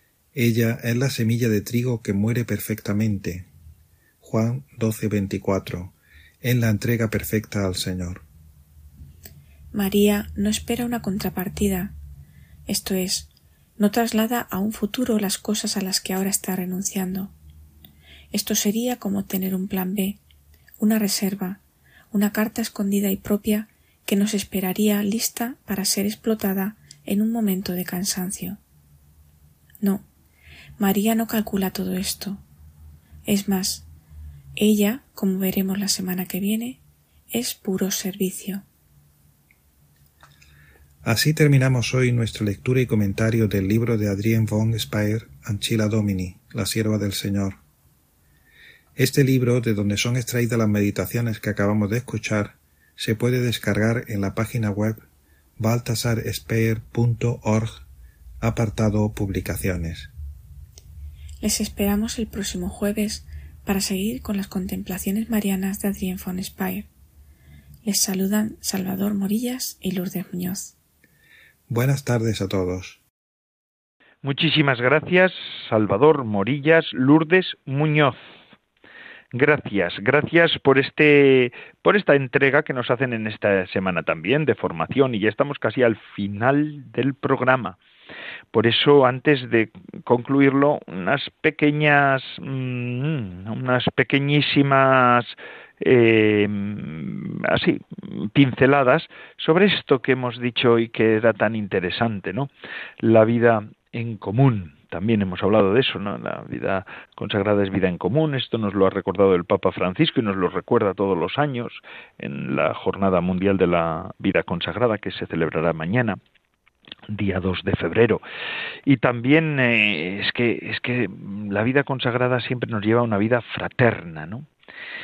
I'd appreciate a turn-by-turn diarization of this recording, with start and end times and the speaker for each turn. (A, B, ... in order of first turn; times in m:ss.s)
0:00.3-0:03.5 A
0:04.2-0:08.2 A
0:09.7-0:11.9 B
0:12.7-0:17.3 B
0:18.3-0:20.2 B
0:20.8-0:21.6 B
0:22.1-0:28.6 B
0:30.8-0:32.4 B
0:33.3-0:33.9 B
0:34.6-0:38.6 B
0:41.0-0:47.6 A
0:49.0-0:55.0 A
0:55.6-0:57.8 A
0:58.4-1:00.1 A
1:01.4-1:06.9 B
1:07.8-1:10.7 B
1:11.7-1:13.0 A
1:14.2-1:18.2 C
1:19.3-1:27.8 C
1:28.5-1:56.2 C
1:57.1-1:58.2 C
1:58.8-2:04.5 C